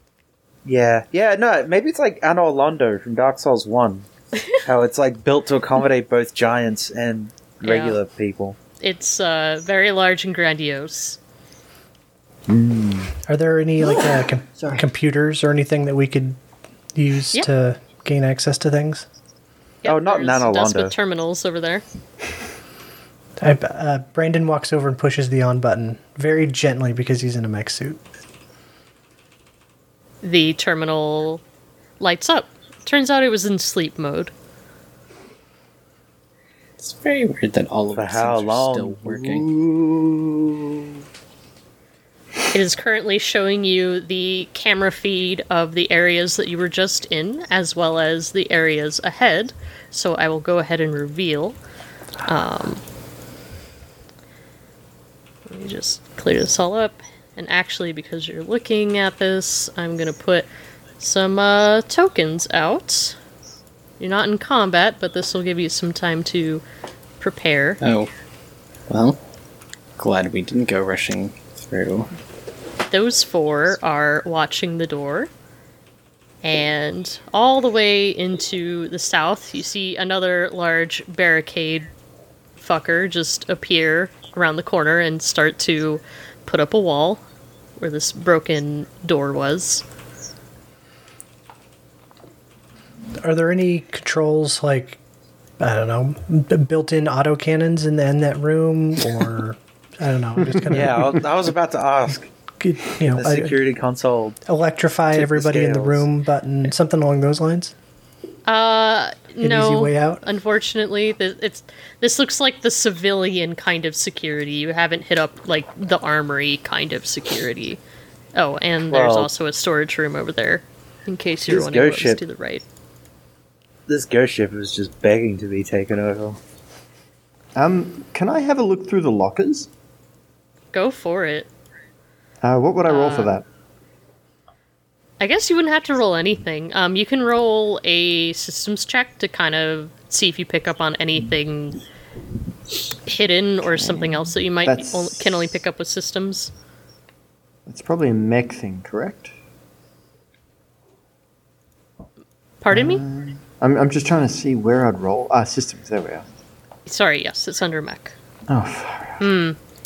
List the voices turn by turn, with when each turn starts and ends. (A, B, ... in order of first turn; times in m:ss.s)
0:00.6-0:08.6 A
0:07.6-0:08.0 B
0:08.8-0:11.2 B
0:12.5-0:13.1 A
0:13.3-0:16.4 C
0:14.6-0:14.8 D
0:16.9-0:19.1 C
0:19.8-0:21.0 A
0:19.8-0:21.8 B
0:23.4-0:28.0 C
0:30.2-0:31.4 B
0:32.0-0:34.3 B
0:36.8-0:39.5 E
0:37.9-0:40.9 A
0:42.5-0:51.6 B
0:52.2-0:52.8 B
0:55.5-1:00.5 B
1:01.0-1:03.2 B
1:04.0-1:06.6 B
1:07.2-1:07.8 B
1:07.8-1:08.1 E
1:08.9-1:09.2 E
1:10.0-1:12.1 E
1:12.9-1:15.3 B
1:16.4-1:21.9 B
1:22.6-1:27.2 B
1:27.8-1:29.8 B
1:33.2-1:35.0 C
1:35.6-1:41.2 C
1:40.7-1:42.3 A
1:42.6-1:43.5 C
1:43.0-1:44.4 A
1:44.4-1:47.7 C
1:45.1-1:46.0 A
1:48.5-1:57.8 B
1:49.4-1:50.2 C
1:58.3-2:02.6 B
1:58.9-1:59.3 A
2:01.5-2:02.2 A
2:03.9-2:06.4 A
2:07.6-2:09.7 D
2:10.7-2:11.5 B
2:12.4-2:13.4 D
2:12.9-2:13.3 B
2:15.2-2:21.8 B
2:23.0-2:26.5 B
2:23.8-2:25.5 D
2:27.7-2:29.3 D
2:32.6-2:33.0 B
2:32.7-2:36.2 D
2:36.9-2:38.2 B
2:38.5-2:39.2 D
2:39.2-2:39.6 B